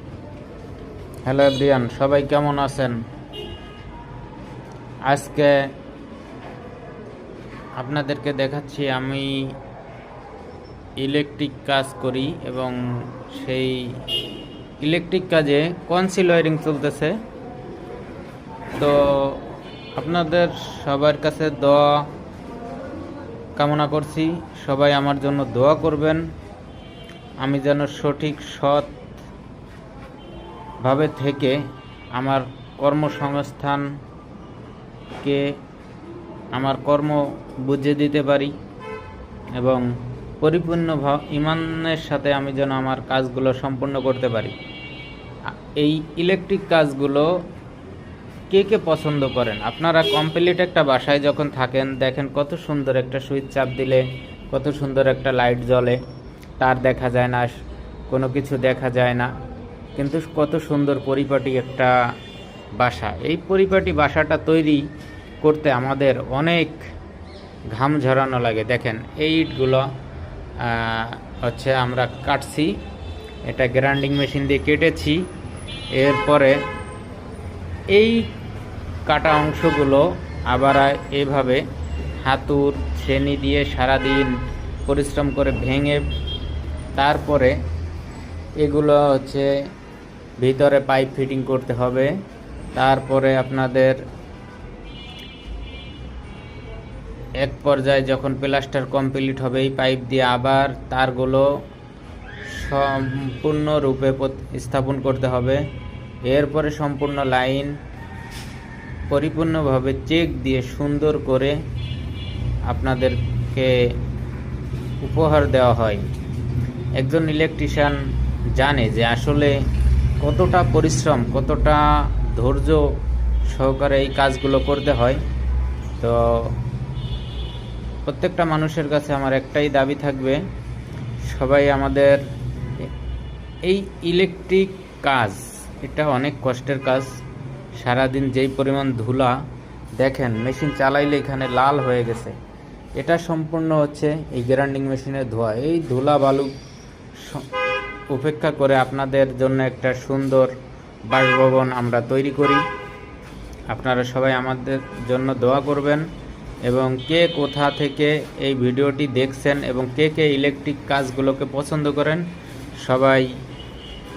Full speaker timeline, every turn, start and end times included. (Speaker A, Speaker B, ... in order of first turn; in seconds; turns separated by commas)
Speaker A: 1.2-3.0, Speaker A: 5.1-5.7, Speaker A: 7.8-9.5, Speaker A: 11.0-14.0, Speaker A: 14.8-17.2, Speaker A: 18.8-19.4, Speaker A: 19.9-22.1, Speaker A: 23.6-26.2, Speaker A: 27.4-28.9, Speaker A: 30.8-31.6, Speaker A: 32.1-33.9, Speaker A: 35.2-35.5, Speaker A: 36.5-38.5, Speaker A: 39.6-39.9, Speaker A: 40.4-44.5, Speaker A: 45.5-47.3, Speaker A: 48.5-56.0, Speaker A: 56.6-57.5, Speaker A: 58.1-59.3, Speaker A: 60.0-61.9, Speaker A: 62.8-64.8, Speaker A: 65.4-66.8, Speaker A: 67.7-69.9, Speaker A: 70.6-72.7, Speaker A: 73.5-75.2, Speaker A: 75.9-76.6, Speaker A: 77.9-78.3, Speaker A: 79.1-81.6, Speaker A: 82.2-84.3, Speaker A: 84.9-86.0, Speaker A: 87.0-87.5, Speaker A: 88.6-89.5, Speaker A: 90.4-92.1, Speaker A: 92.7-94.0, Speaker A: 97.4-101.5, Speaker A: 102.5-105.6, Speaker A: 106.2-107.7, Speaker A: 109.1-111.6, Speaker A: 112.7-113.9, Speaker A: 115.0-116.0, Speaker A: 117.0-118.0, Speaker A: 118.5-119.6, Speaker A: 120.2-125.2, Speaker A: 126.0-126.6, Speaker A: 128.0-130.4, Speaker A: 131.2-132.2, Speaker A: 133.6-137.2, Speaker A: 137.7-139.3, Speaker A: 140.0-142.3, Speaker A: 143.0-146.5, Speaker A: 147.2-147.5, Speaker A: 148.1-150.5, Speaker A: 151.1-152.6, Speaker A: 153.7-156.1, Speaker A: 156.7-162.2, Speaker A: 162.8-163.3